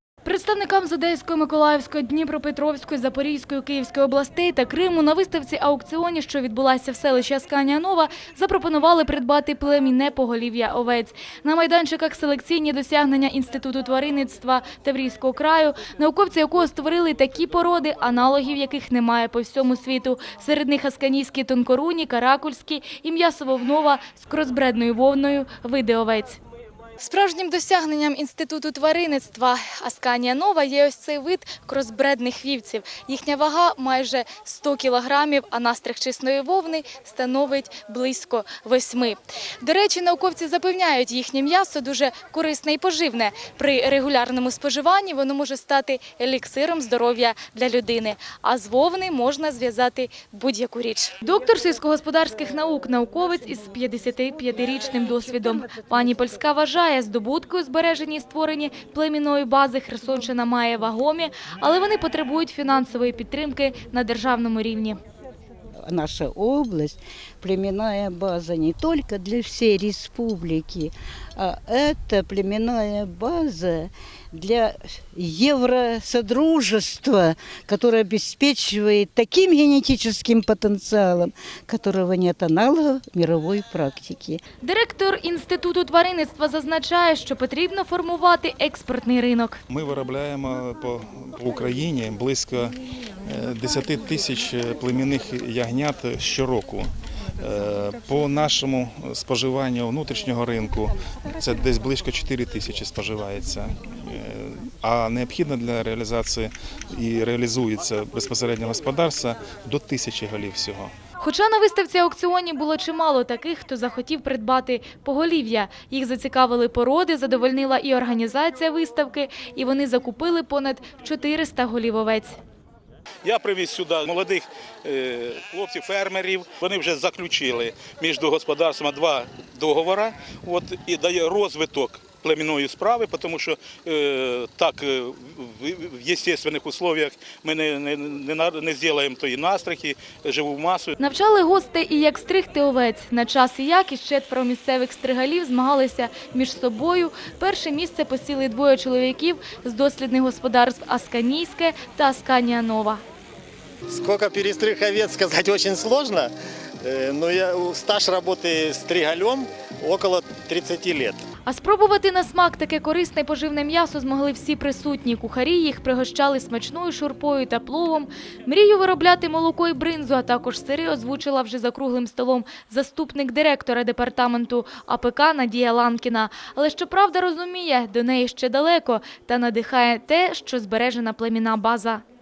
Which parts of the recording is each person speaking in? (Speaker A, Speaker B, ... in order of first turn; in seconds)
Speaker A: 0.2-26.4, 27.0-65.0, 84.6-89.6, 111.2-122.4, 141.0-153.0, 161.4-182.0
Speaker B: 65.8-84.4
Speaker C: 89.7-110.9
Speaker D: 123.2-140.9
Speaker E: 153.9-161.2